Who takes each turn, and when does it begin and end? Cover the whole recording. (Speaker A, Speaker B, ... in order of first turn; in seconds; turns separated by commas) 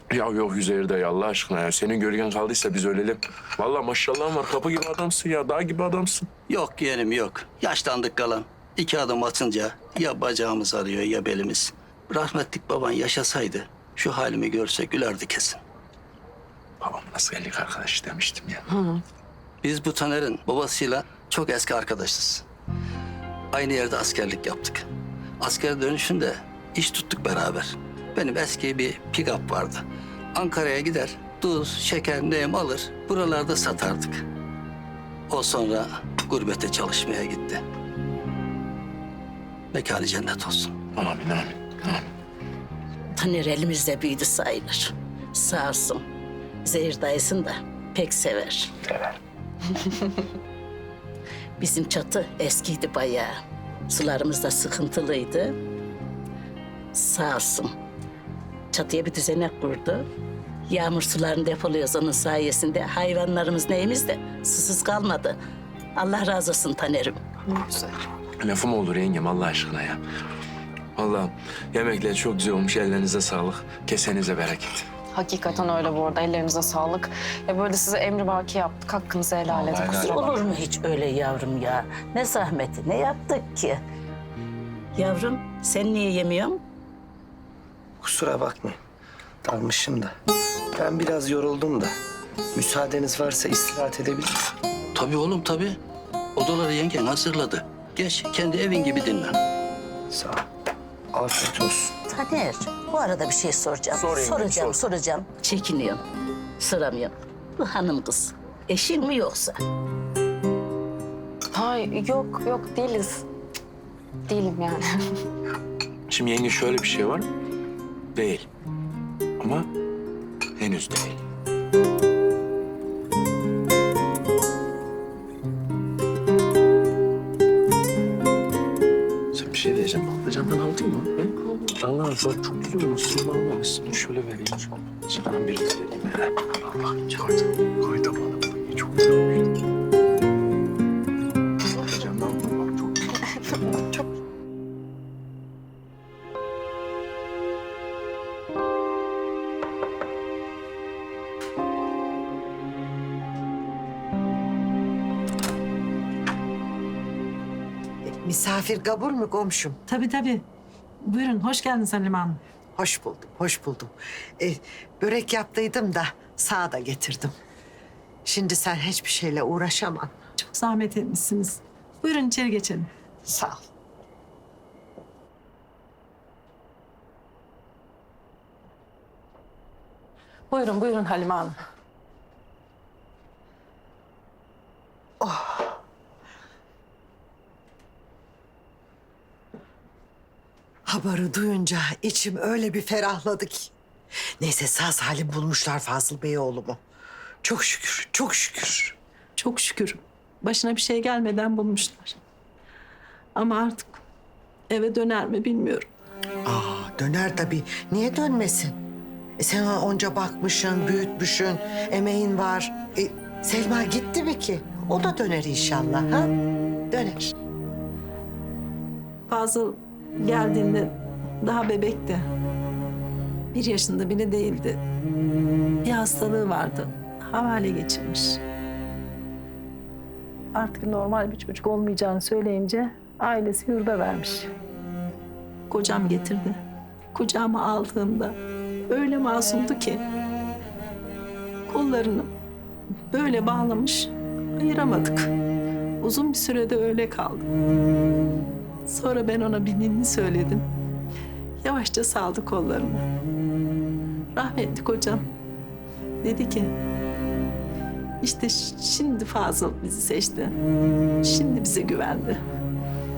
Speaker A: 0.1-6.3, Speaker B: 6.5-15.6, Speaker A: 16.8-18.6, Speaker C: 18.7-19.0, Speaker B: 19.6-22.4, Speaker B: 23.5-24.9, Speaker B: 25.4-34.2, Speaker B: 35.3-37.6, Speaker B: 39.7-40.8, Speaker A: 41.0-42.1, Speaker D: 43.1-46.0, Speaker D: 46.6-48.7, Speaker D: 51.6-53.4, Speaker D: 53.9-55.5, Speaker D: 56.9-57.7, Speaker D: 58.7-60.1, Speaker D: 60.7-65.4, Speaker D: 66.0-67.2, Speaker C: 67.5-68.0, Speaker A: 68.4-70.0, Speaker A: 71.0-74.9, Speaker C: 75.1-80.4, Speaker A: 79.5-80.3, Speaker D: 80.0-83.8, Speaker D: 85.0-86.6, Speaker E: 88.0-88.8, Speaker E: 89.4-90.1, Speaker E: 90.7-91.9, Speaker E: 92.5-94.3, Speaker B: 95.0-95.8, Speaker B: 96.4-99.4, Speaker E: 100.1-100.4, Speaker E: 101.1-101.9, Speaker D: 102.1-106.0, Speaker A: 103.9-104.8, Speaker D: 106.6-109.5, Speaker C: 111.5-113.3, Speaker C: 114.3-114.9, Speaker A: 116.1-117.3, Speaker A: 118.2-118.5, Speaker A: 119.4-119.7, Speaker A: 120.6-121.2, Speaker A: 129.3-139.3, Speaker A: 141.8-143.2, Speaker F: 158.1-159.8, Speaker G: 159.9-160.4, Speaker G: 161.0-162.4, Speaker F: 162.8-167.3, Speaker F: 168.3-170.1, Speaker G: 170.4-173.5, Speaker G: 180.5-181.6, Speaker F: 185.2-185.8, Speaker F: 190.9-193.7, Speaker F: 194.4-196.8, Speaker F: 197.4-199.0, Speaker G: 199.4-199.8, Speaker G: 200.5-201.9, Speaker G: 203.4-203.9, Speaker G: 205.1-205.7, Speaker F: 206.5-208.8, Speaker F: 209.4-216.3, Speaker F: 216.9-217.3, Speaker G: 219.3-219.7, Speaker G: 220.2-220.9, Speaker G: 221.4-222.2, Speaker G: 223.5-224.8, Speaker G: 225.9-228.2, Speaker G: 230.6-234.5, Speaker G: 235.8-236.5, Speaker G: 237.2-238.3, Speaker G: 238.9-239.9, Speaker G: 241.7-242.2, Speaker G: 243.1-244.0, Speaker G: 244.6-245.2, Speaker G: 246.0-247.4, Speaker G: 248.9-250.6, Speaker G: 251.6-253.0, Speaker G: 254.4-255.2, Speaker G: 256.2-256.6, Speaker G: 258.2-260.4, Speaker G: 261.3-262.3